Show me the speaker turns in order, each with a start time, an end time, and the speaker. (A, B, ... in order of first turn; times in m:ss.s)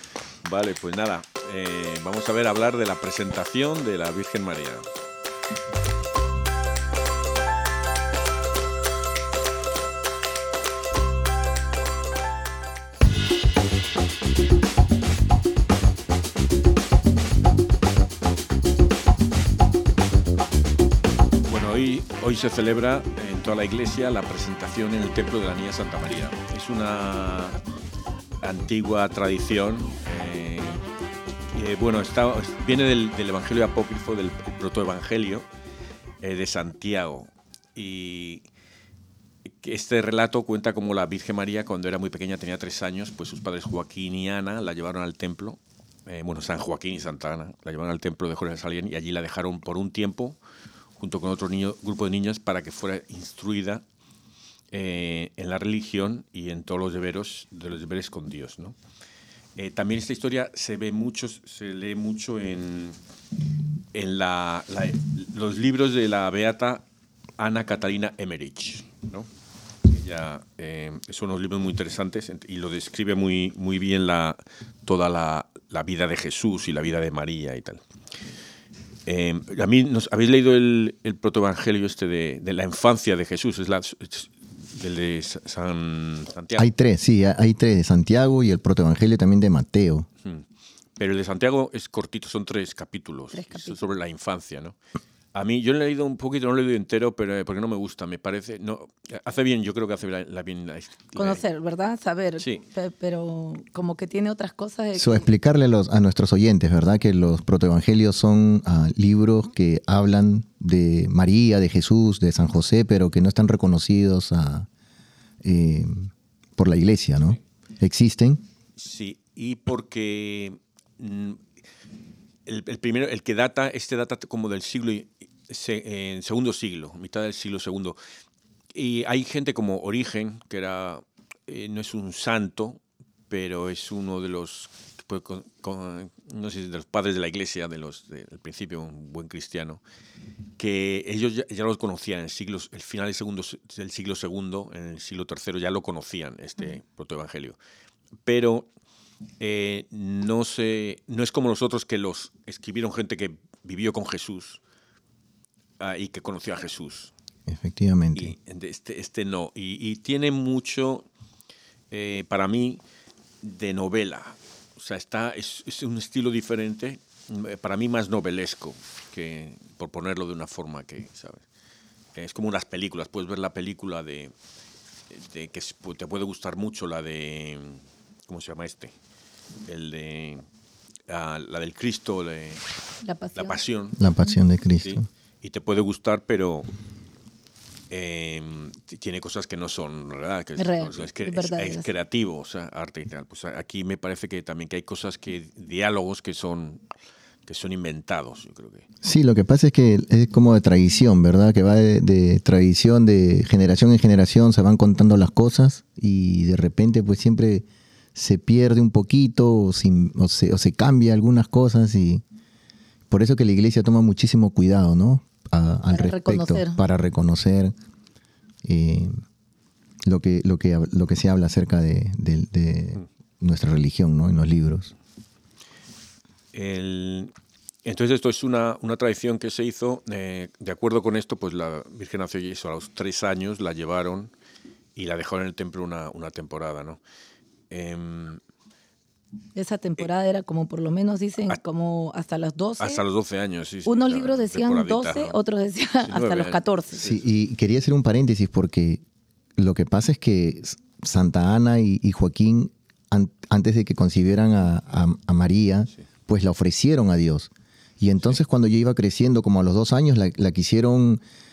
0:00.4-0:04.9 A
0:21.5-0:27.6 A
0:28.4-0:30.8 A
0:31.5-0:35.5 A
0:36.2-0:38.5 A
0:39.6-0:50.4 A
0:51.0-0:53.8 A
0:54.7-0:58.8 A
0:59.6-1:03.0 A
1:03.9-1:06.8 A
1:07.4-1:09.3 A
1:09.9-1:17.8 A
1:19.1-1:26.7 A
1:26.6-1:30.1 B
1:31.0-1:34.8 A
1:33.3-1:33.9 C
1:35.3-1:41.4 A
1:41.2-1:45.3 C
1:45.0-1:54.7 B
1:55.4-1:58.4 B
1:58.8-2:01.4 A
2:02.5-2:08.0 A
2:08.7-2:19.8 A
2:20.6-2:27.6 A
2:28.2-2:28.7 A
2:29.4-2:34.6 A
2:35.8-2:37.1 A
2:37.5-2:38.3 B
2:38.2-2:41.1 A
2:41.9-2:42.8 A
2:43.4-2:51.4 A
2:52.2-2:54.3 A
2:55.1-2:58.9 A
2:59.7-3:00.4 A
3:01.1-3:02.6 A
3:03.0-3:03.6 C
3:03.4-3:04.0 A
3:04.0-3:05.0 B
3:04.8-3:06.7 A
3:07.9-3:16.8 A
3:10.6-3:11.9 C
3:17.5-3:18.8 A
3:19.0-3:32.2 B
3:33.1-3:37.7 B
3:35.9-3:36.8 C
3:38.6-3:39.1 B
3:40.1-3:44.9 B
3:46.5-3:47.3 A
3:47.8-3:54.3 A
3:55.0-3:57.0 A
3:57.7-3:58.4 A
3:59.6-4:03.0 C
4:02.8-4:05.4 A
4:03.9-4:07.1 C
4:06.0-4:07.2 A
4:07.0-4:09.0 B
4:09.6-4:21.2 B